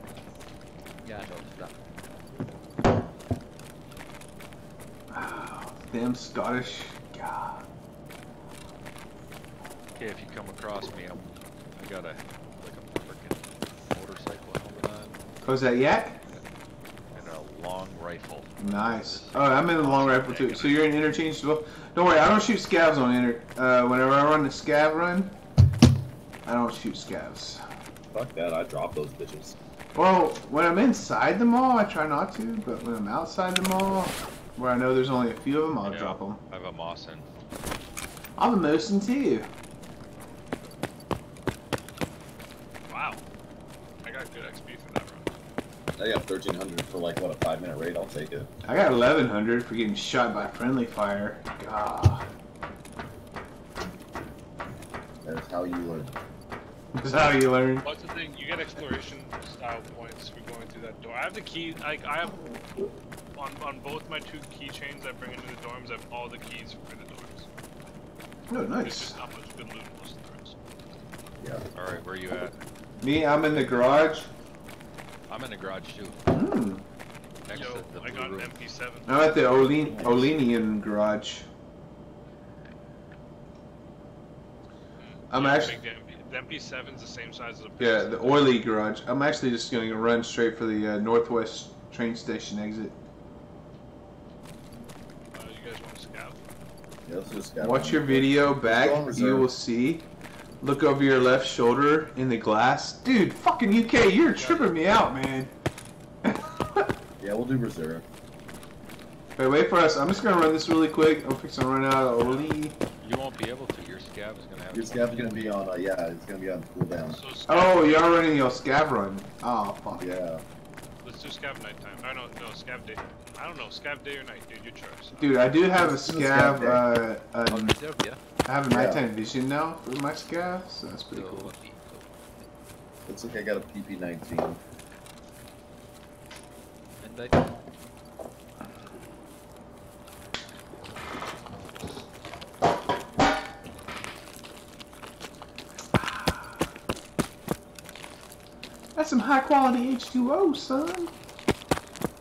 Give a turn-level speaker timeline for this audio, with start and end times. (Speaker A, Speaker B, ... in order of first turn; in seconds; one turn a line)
Speaker A: 1.0-1.7
Speaker B: 5.1-7.7
Speaker C: 9.9-15.2
Speaker B: 15.4-16.2
Speaker C: 17.1-20.9
Speaker B: 18.6-25.4
Speaker B: 26.4-27.6
Speaker D: 28.1-29.6
Speaker B: 29.9-36.4
Speaker C: 35.8-37.2
Speaker B: 38.4-39.5
Speaker E: 42.9-43.2
Speaker E: 44.0-45.3
Speaker D: 46.0-48.5
Speaker B: 48.6-52.3
Speaker D: 55.2-56.1
Speaker B: 56.9-57.9
Speaker E: 57.8-62.4
Speaker E: 63.3-67.5
Speaker B: 68.5-69.2
Speaker E: 68.8-70.5
Speaker C: 71.7-72.5
Speaker B: 73.0-74.3
Speaker C: 75.3-76.2
Speaker B: 76.3-76.8
Speaker C: 77.4-78.6
Speaker E: 77.5-79.4
Speaker B: 79.0-81.5
Speaker D: 79.8-80.3
Speaker E: 85.0-88.6
Speaker B: 85.3-85.8
Speaker B: 87.8-92.9
Speaker E: 95.3-96.4
Speaker D: 97.0-99.5
Speaker B: 97.6-100.1
Speaker B: 100.6-105.5
Speaker E: 104.3-104.8
Speaker B: 106.2-106.9
Speaker D: 107.2-108.0
Speaker B: 109.4-112.8
Speaker E: 112.1-112.5
Speaker C: 113.0-115.5
Speaker D: 114.7-117.2
Speaker E: 117.1-118.3
Speaker B: 117.5-120.2
Speaker D: 120.0-120.4
Speaker E: 121.0-125.3
Speaker B: 125.2-127.8
Speaker D: 125.7-126.9
Speaker A: 127.5-128.2
Speaker B: 128.4-131.5
Speaker D: 128.7-129.0
Speaker A: 131.1-132.1
Speaker D: 133.1-134.6
Speaker A: 137.0-137.4
Speaker B: 145.9-146.6
Speaker B: 148.9-151.1